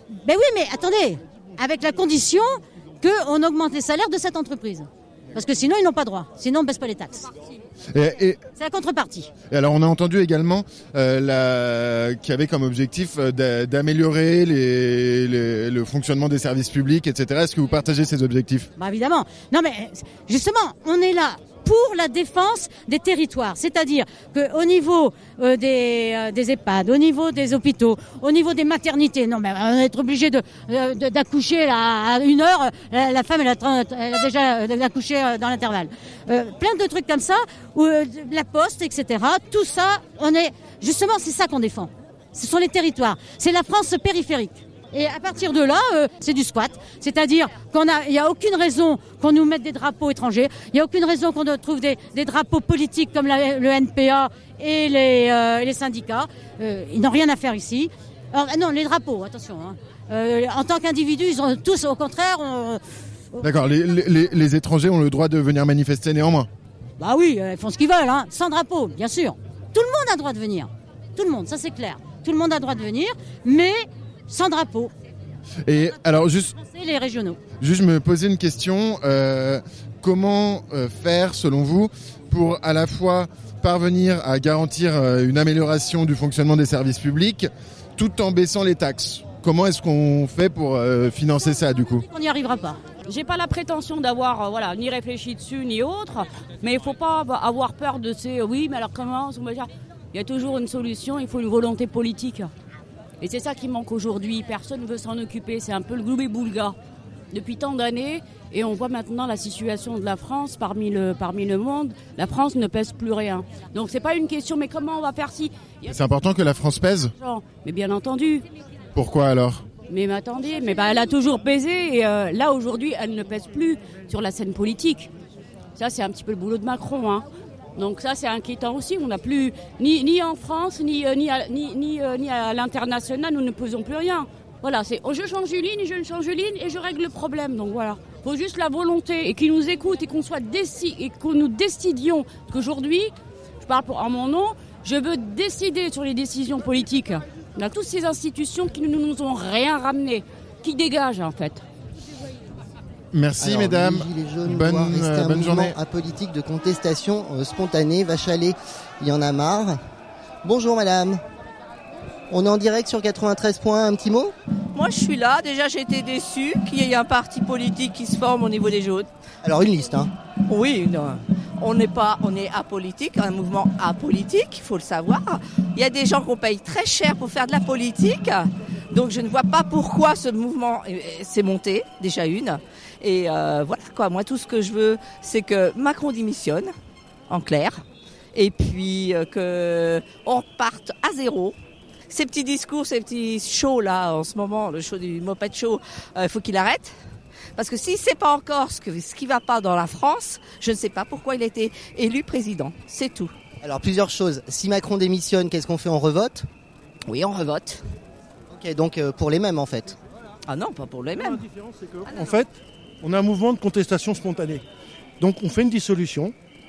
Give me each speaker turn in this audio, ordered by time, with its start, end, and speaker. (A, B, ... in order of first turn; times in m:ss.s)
0:00.2-0:07.3 A
0:07.9-0:08.4 B
0:08.6-0:09.3 A
0:09.5-0:18.7 B
0:18.8-1:02.8 A
1:03.4-1:06.5 B
1:07.0-1:14.9 A
1:15.6-1:16.5 B
1:16.6-1:17.4 A
1:17.6-1:32.0 B
1:32.0-1:32.8 A
1:33.0-1:42.5 C
1:43.2-1:46.8 C
1:47.3-1:55.9 C
1:55.9-1:57.1 B
1:57.2-1:58.4 C
1:58.9-1:59.7 B
1:59.9-2:05.1 C
2:05.8-2:31.6 C
2:33.1-2:35.8 B
2:33.4-2:39.8 D
2:40.4-2:41.2 D
2:42.3-2:44.3 D
2:44.7-2:49.1 E
2:49.4-2:50.1 D
2:50.5-3:06.7 E
3:07.3-3:11.6 E
3:12.1-3:16.9 E
3:17.6-3:23.3 E
3:23.6-3:26.5 D
3:27.0-3:27.8 E
3:28.5-3:30.0 D
3:30.5-3:31.4 E
3:31.2-3:34.6 F
3:35.2-3:36.3 F